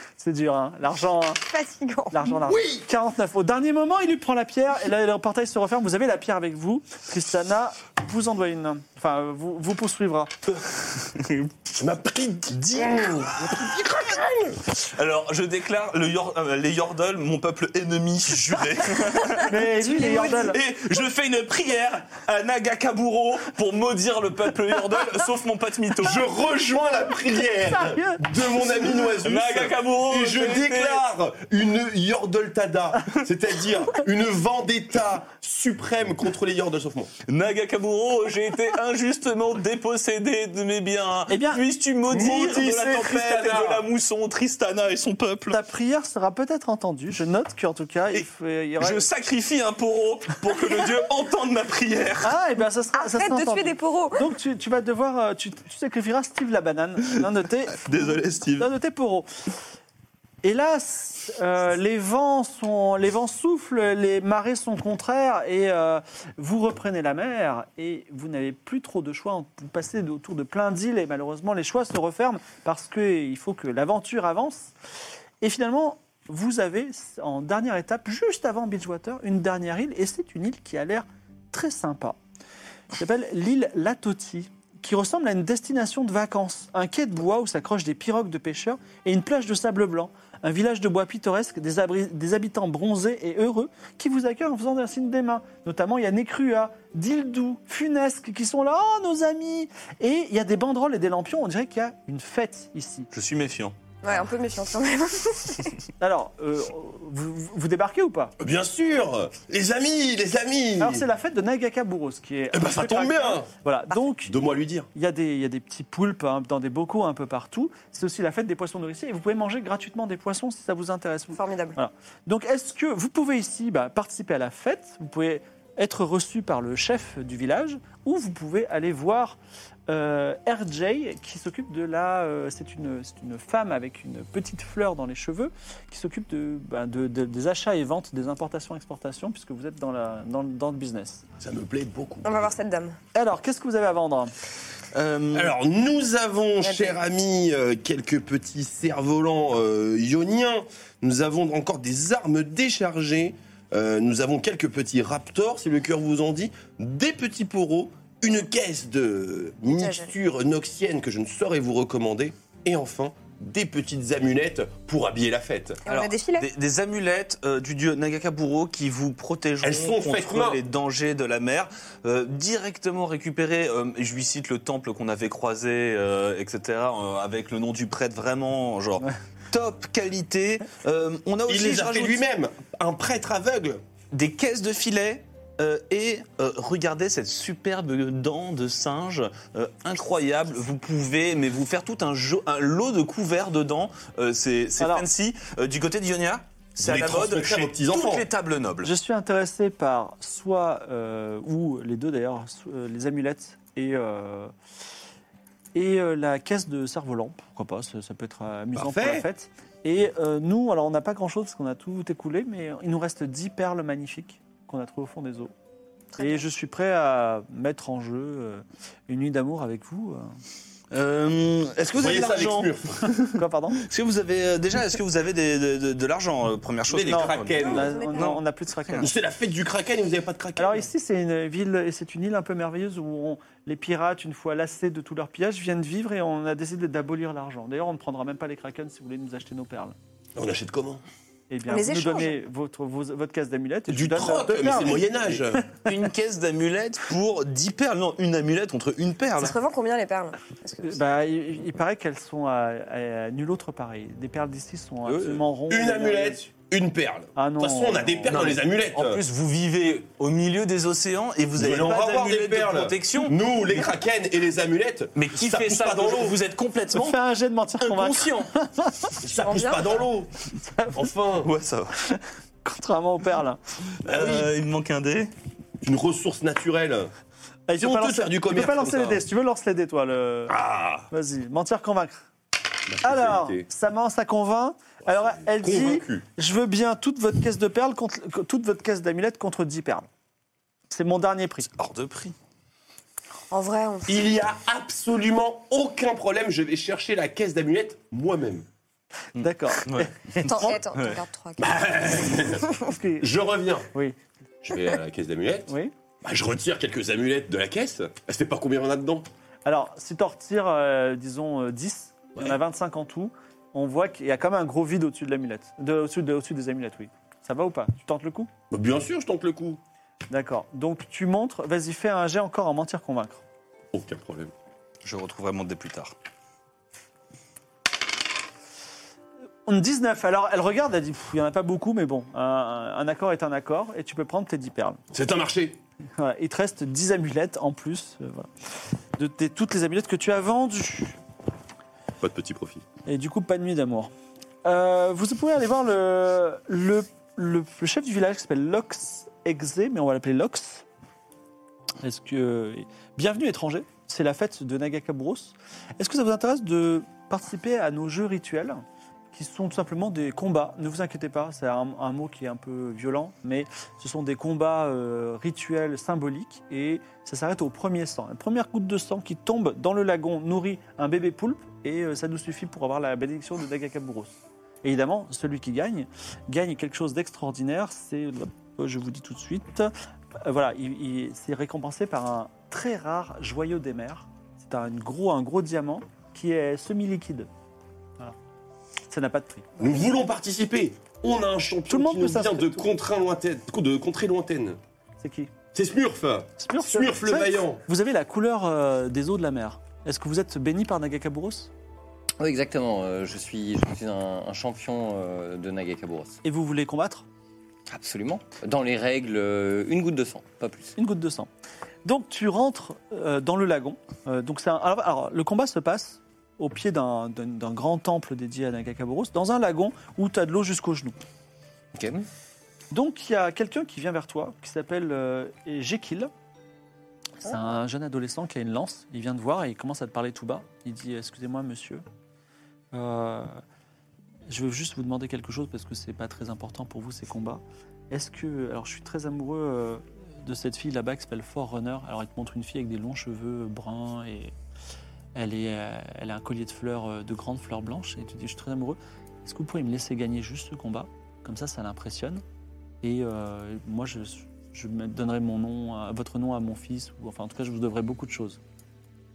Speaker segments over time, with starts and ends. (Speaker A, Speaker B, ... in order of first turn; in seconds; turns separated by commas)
Speaker A: 0.2-1.4, Speaker B: 1.4-2.2, Speaker A: 2.1-10.3, Speaker C: 2.4-2.8, Speaker D: 11.0-11.5, Speaker C: 11.8-14.6, Speaker D: 14.8-26.2, Speaker A: 19.5-20.6, Speaker C: 26.0-37.1, Speaker A: 27.6-28.2, Speaker D: 29.1-31.0, Speaker D: 37.3-45.6, Speaker A: 41.3-41.6, Speaker C: 42.1-43.9, Speaker A: 45.5-49.0, Speaker D: 48.8-52.3, Speaker A: 52.2-59.3, Speaker B: 53.0-54.2, Speaker D: 57.1-58.7, Speaker A: 60.4-74.7, Speaker A: 75.4-82.2, Speaker A: 83.0-103.1, Speaker D: 103.1-103.7, Speaker B: 104.0-105.7, Speaker A: 106.0-108.3, Speaker C: 108.4-111.0, Speaker A: 110.8-114.4, Speaker C: 112.5-113.5, Speaker C: 114.2-114.9, Speaker A: 114.9-129.4, Speaker B: 121.3-121.8, Speaker A: 129.9-141.2, Speaker C: 141.4-142.5, Speaker B: 142.2-143.0, Speaker A: 143.1-144.3, Speaker D: 144.9-145.5, Speaker C: 145.3-165.8, Speaker B: 146.6-147.0, Speaker B: 159.7-160.1, Speaker B: 165.8-166.5, Speaker D: 165.9-182.2, Speaker C: 169.6-170.6, Speaker C: 181.5-183.8, Speaker D: 184.1-198.9, Speaker A: 194.8-195.1, Speaker C: 196.8-198.3, Speaker A: 198.8-204.5, Speaker A: 205.7-215.5, Speaker C: 208.8-209.2, Speaker B: 216.1-216.4, Speaker A: 216.2-220.3, Speaker D: 220.9-229.0, Speaker C: 221.9-223.1, Speaker A: 223.3-223.8, Speaker C: 226.9-227.9, Speaker A: 227.1-229.1, Speaker B: 227.6-228.3, Speaker C: 229.0-230.9, Speaker A: 230.6-239.9, Speaker C: 240.3-241.0, Speaker A: 241.5-245.6, Speaker B: 241.7-242.4, Speaker C: 243.9-245.7, Speaker D: 245.7-249.6, Speaker B: 249.4-250.9, Speaker A: 250.8-256.5, Speaker D: 255.0-255.4, Speaker C: 255.7-259.2, Speaker A: 257.4-258.5, Speaker D: 258.3-263.4, Speaker C: 261.6-266.4, Speaker D: 265.1-267.2, Speaker A: 266.9-269.2, Speaker D: 267.8-268.5, Speaker C: 269.2-270.3, Speaker B: 269.4-270.0, Speaker C: 270.9-271.5, Speaker D: 271.4-272.2, Speaker A: 272.6-273.6, Speaker D: 274.1-275.3, Speaker C: 274.1-274.5, Speaker C: 275.8-277.1, Speaker A: 277.7-280.6, Speaker C: 277.8-279.2, Speaker C: 280.5-281.1, Speaker A: 281.1-282.3, Speaker C: 282.9-283.6, Speaker A: 283.0-290.1, Speaker C: 285.1-286.2, Speaker A: 290.9-291.7, Speaker D: 291.6-292.3, Speaker B: 293.5-294.3, Speaker C: 294.1-298.6, Speaker A: 299.4-300.8, Speaker D: 299.4-301.2, Speaker B: 300.4-301.8, Speaker C: 301.6-303.9, Speaker A: 302.8-303.3, Speaker C: 304.6-309.2, Speaker A: 305.7-305.9, Speaker A: 309.6-318.5, Speaker C: 318.7-319.8, Speaker A: 320.3-323.4, Speaker C: 323.9-324.5, Speaker D: 325.0-326.1, Speaker A: 329.7-335.0, Speaker C: 335.1-335.8, Speaker A: 336.2-338.5, Speaker A: 339.2-341.2, Speaker C: 342.2-342.8, Speaker A: 343.1-344.1, Speaker A: 344.6-350.8, Speaker A: 352.0-358.8, Speaker A: 359.3-387.5, Speaker A: 389.1-389.7, Speaker C: 389.8-394.8, Speaker A: 391.9-392.9, Speaker A: 395.2-395.5, Speaker C: 395.7-397.8, Speaker A: 396.6-401.7, Speaker E: 402.4-406.4, Speaker A: 406.4-407.2, Speaker E: 407.9-410.9, Speaker A: 410.9-411.5, Speaker A: 412.0-421.1, Speaker E: 421.9-422.3, Speaker A: 422.9-426.3, Speaker A: 427.4-432.0, Speaker A: 432.9-433.6, Speaker A: 434.5-444.5, Speaker A: 445.3-452.4, Speaker A: 453.0-458.6